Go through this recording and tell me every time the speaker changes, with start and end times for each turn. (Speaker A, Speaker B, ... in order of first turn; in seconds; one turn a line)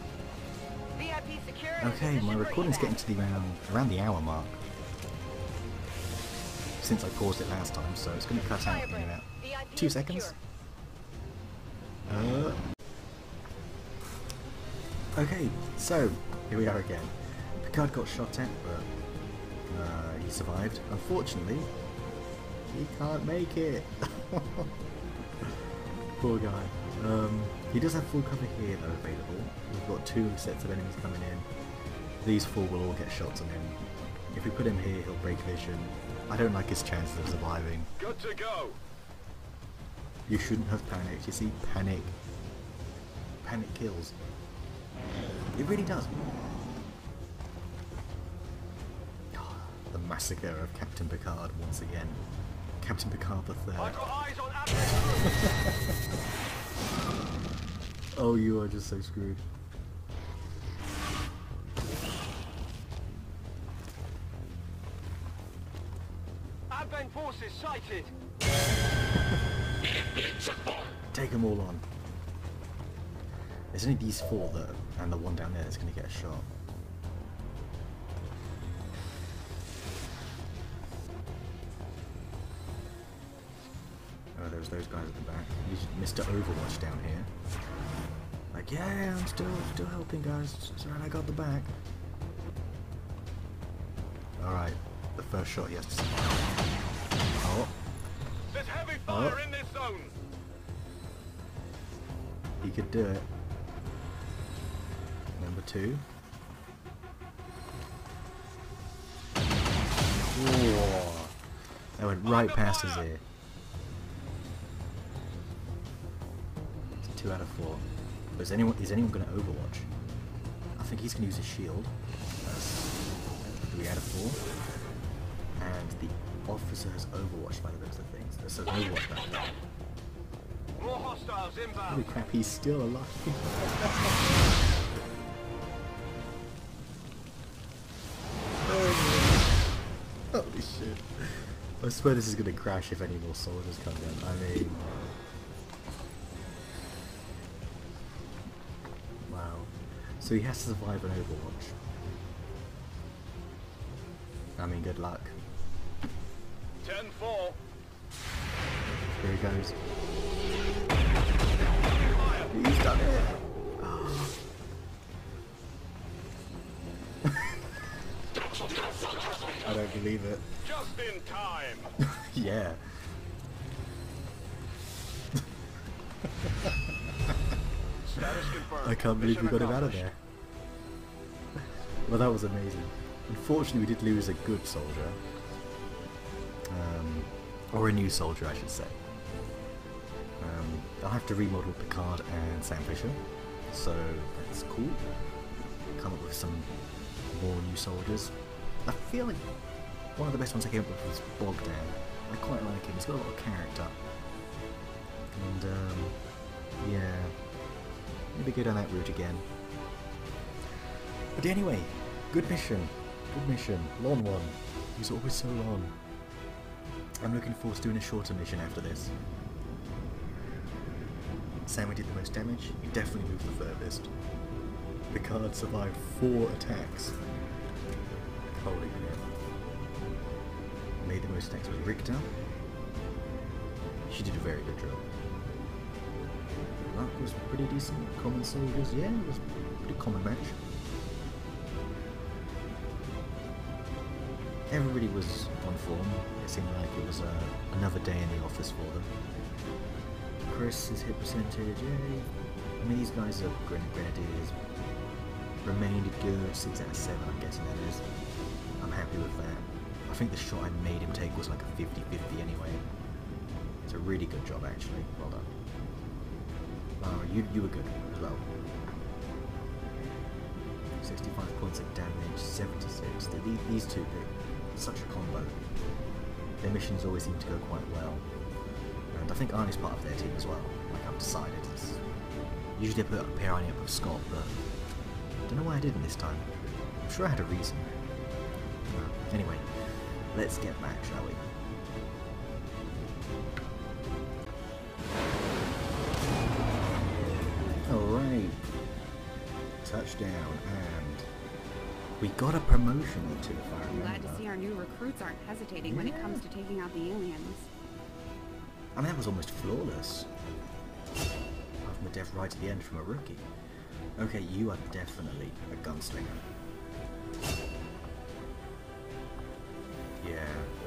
Speaker A: 1.0-3.0
Speaker B: 1.8-4.6
Speaker B: 6.8-10.4
Speaker A: 8.5-10.3
Speaker B: 12.1-12.6
Speaker B: 15.1-18.9
Speaker B: 19.7-21.7
Speaker B: 22.7-24.7
Speaker B: 25.4-31.5
Speaker B: 32.2-33.8
Speaker B: 34.3-37.9
Speaker C: 38.0-38.8
Speaker B: 40.3-42.1
Speaker B: 43.4-44.1
Speaker B: 45.5-46.3
Speaker B: 49.3-52.2
Speaker B: 52.8-54.1
Speaker C: 53.8-55.3
Speaker B: 55.2-56.0
Speaker B: 58.1-59.4
Speaker C: 66.7-68.1
Speaker B: 71.1-71.8
Speaker B: 73.7-76.5
Speaker B: 84.3-87.3
Speaker B: 88.5-91.7
Speaker B: 94.4-96.5
Speaker B: 97.3-97.7
Speaker C: 98.5-100.1
Speaker B: 99.1-99.4
Speaker B: 102.6-103.3
Speaker B: 105.3-106.0
Speaker B: 110.3-111.3
Speaker B: 112.0-113.2
Speaker C: 112.2-113.0
Speaker B: 117.0-119.9
Speaker B: 120.8-124.4
Speaker B: 125.6-129.5
Speaker C: 130.8-132.0
Speaker B: 131.8-134.2
Speaker B: 138.6-139.5
Speaker B: 140.3-145.1
Speaker B: 149.3-151.8
Speaker B: 154.6-155.3
Speaker C: 156.8-157.6
Speaker B: 159.1-159.8
Speaker C: 161.7-162.5
Speaker B: 162.5-164.4
Speaker B: 167.2-167.6
Speaker B: 169.5-170.5
Speaker C: 170.6-171.9
Speaker B: 172.0-173.1
Speaker B: 176.2-177.3
Speaker C: 178.1-180.0
Speaker B: 178.2-180.2
Speaker B: 181.6-185.2
Speaker B: 186.7-189.0
Speaker B: 190.4-195.0
Speaker B: 195.9-196.7
Speaker B: 197.3-198.3
Speaker B: 198.8-199.4
Speaker B: 200.2-204.0
Speaker B: 205.3-206.2
Speaker B: 206.8-207.3
Speaker B: 208.3-209.4
Speaker B: 211.3-215.9
Speaker B: 217.2-219.2
Speaker B: 221.6-224.1
Speaker B: 225.1-227.2
Speaker B: 228.5-229.3
Speaker B: 231.0-232.3
Speaker B: 234.1-235.0
Speaker B: 236.8-240.6
Speaker B: 244.7-249.1
Speaker B: 250.4-254.6
Speaker B: 255.6-258.0
Speaker B: 258.8-262.8
Speaker B: 263.9-265.5
Speaker B: 267.0-268.5
Speaker B: 270.9-275.6
Speaker B: 276.6-278.2
Speaker B: 279.1-282.0
Speaker B: 282.7-284.5
Speaker B: 285.5-288.1
Speaker B: 288.9-291.4
Speaker B: 297.8-298.6
Speaker B: 299.8-301.3
Speaker B: 302.2-304.5
Speaker D: 303.9-307.7
Speaker B: 305.8-306.4
Speaker B: 308.9-310.3
Speaker B: 311.8-313.5
Speaker B: 314.2-316.4
Speaker B: 320.2-320.7